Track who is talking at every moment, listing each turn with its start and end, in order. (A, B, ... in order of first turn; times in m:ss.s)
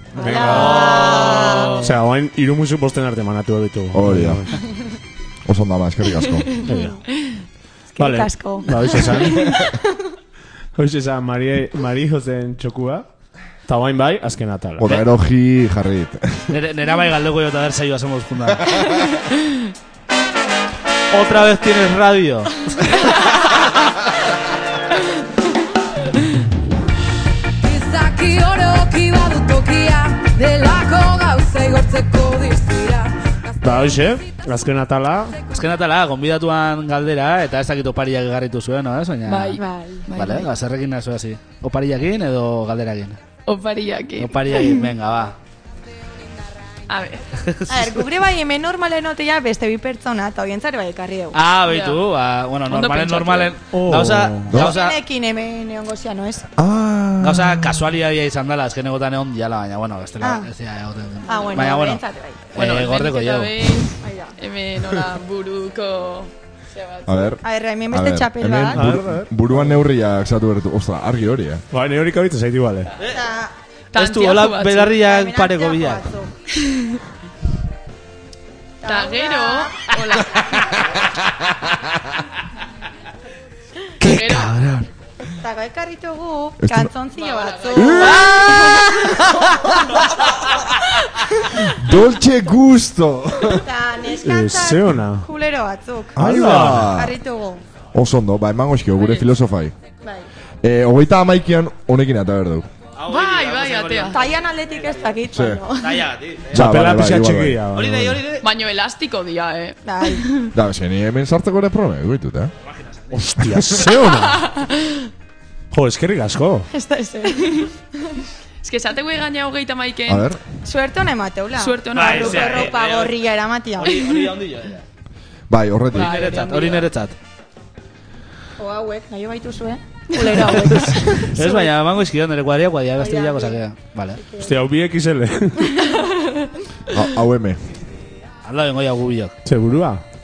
0:00.2-0:01.8 A
0:00.2-0:01.0 B
0:00.2-0:01.9 C
0:01.8-0:04.6 B
0:03.9-0:04.5 D
0:05.4-0:06.6 D
0:06.6-0:07.0 B
0:06.7-0:07.0 A
0:07.9-0:09.9 A
0:08.0-0:09.6 B
0:10.8-0:13.1 B
0:13.6-0:14.9 B
0:14.8-0:16.5 D
0:16.5-0:18.8 C
0:21.1-0:22.7 C
0:27.6-0:33.2 E
0:33.6-0:35.4 B
0:35.5-0:39.6 C
0:39.3-0:40.5 F
0:39.6-0:40.1 A
0:40.1-0:43.2 C
0:43.4-0:44.9 F
0:44.2-0:45.4 C
0:46.9-0:47.3 F
0:47.4-0:48.0 C
0:47.7-0:51.4 A
0:51.3-0:55.0 C
0:51.6-0:52.0 F
0:52.7-0:53.6 F
0:53.7-0:54.6 B
0:54.5-0:54.8 D
0:54.6-0:56.5 A
0:56.6-0:57.8 D
0:57.2-1:03.7 C
1:00.2-1:00.5 A
1:01.2-1:02.4 A
1:02.6-1:07.3 F
1:04.0-1:04.3 A
1:07.0-1:11.6 D
1:07.4-1:08.9 A
1:08.7-1:09.8 B
1:11.7-1:12.9 B
1:13.0-1:13.5 A
1:13.9-1:15.0 F
1:13.9-1:16.1 C
1:14.9-1:16.3 A
1:16.7-1:17.0 F
1:18.8-1:19.9 A
1:18.8-1:20.8 F
1:24.0-1:24.5 F
1:24.0-1:24.8 D
1:25.3-1:29.2 A
1:26.6-1:26.9 D
1:27.2-1:29.0 F
1:27.8-1:29.1 D
1:31.5-1:33.6 D
1:33.5-1:37.6 A
1:34.2-1:35.3 B
1:36.1-1:37.2 D
1:36.2-1:36.9 B
1:37.9-1:39.7 D
1:40.6-1:42.7 D
1:43.0-1:45.1 C
1:43.1-1:44.2 F
1:44.1-1:46.1 A
1:45.3-1:45.6 D
1:45.8-1:46.7 C
1:46.5-1:47.6 D
1:46.5-1:48.2 B
1:47.7-1:48.4 C
1:48.4-1:50.5 F
1:49.8-1:50.4 A
1:50.5-1:52.5 D
1:52.6-1:53.2 C
1:53.1-1:54.5 B
1:53.5-1:53.8 D
1:54.2-1:55.0 F
1:55.7-1:56.7 B
1:56.7-1:58.2 A
1:58.6-2:00.3 F
2:00.1-2:00.4 D
2:00.6-2:04.1 A
2:01.6-2:02.7 F
2:01.9-2:03.2 C
2:03.8-2:04.8 C
2:05.5-2:06.3 D
2:05.9-2:07.2 C
2:05.9-2:06.9 F
2:08.6-2:11.7 A
2:10.2-2:10.4 F
2:10.7-2:14.2 C
2:13.0-2:13.6 A
2:14.2-2:14.5 A
2:14.4-2:15.9 B
2:16.9-2:17.6 D
2:18.4-2:19.4 C
2:19.4-2:20.0 B